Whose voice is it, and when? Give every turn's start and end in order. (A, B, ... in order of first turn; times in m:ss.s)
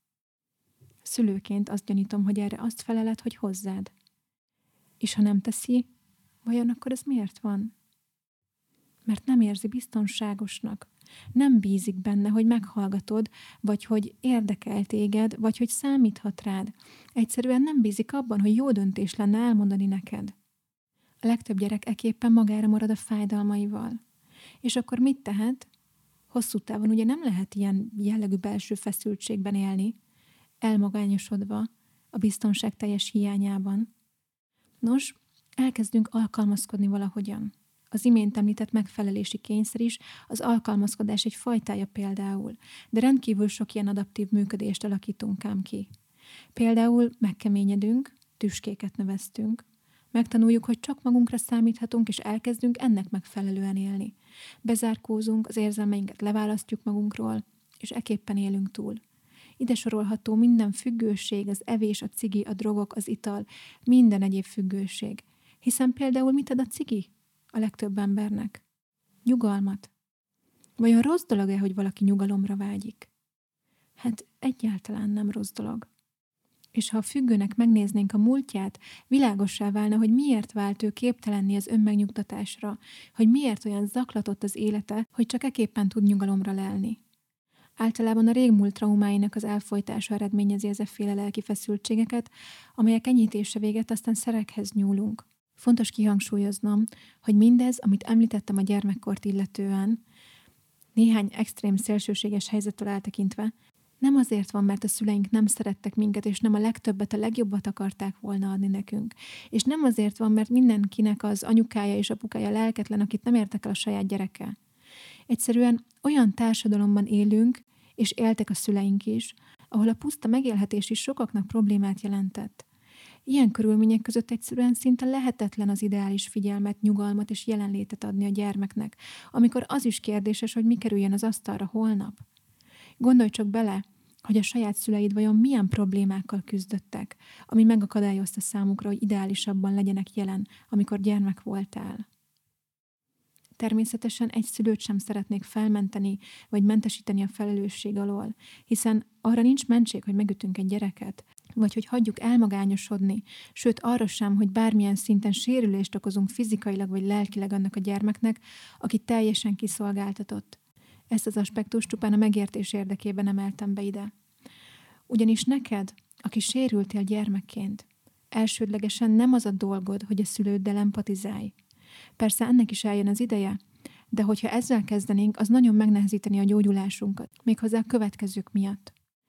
0:01.0-0:03.9 A
0:05.0-0:05.9 A
0:06.4-0:07.7 A
0:09.1-0:20.4 A
0:21.2-0:24.0 A
0:24.6-0:25.7 A
0:26.3-0:30.0 A
0:30.6-0:33.9 A
0:34.8-0:45.9 A
0:46.6-0:59.0 A
0:59.6-1:08.6 A
1:09.3-1:09.9 A
1:10.8-1:13.1 A
1:14.0-1:15.9 A
1:16.7-1:27.0 A
1:27.8-1:40.0 A
1:41.0-1:54.6 A
1:55.3-2:02.7 A
2:03.3-2:12.2 A
2:13.0-2:22.0 A
2:23.6-2:40.6 A
2:41.1-2:44.1 A
2:45.1-2:51.6 A
2:52.2-2:53.6 A
2:54.1-2:58.9 A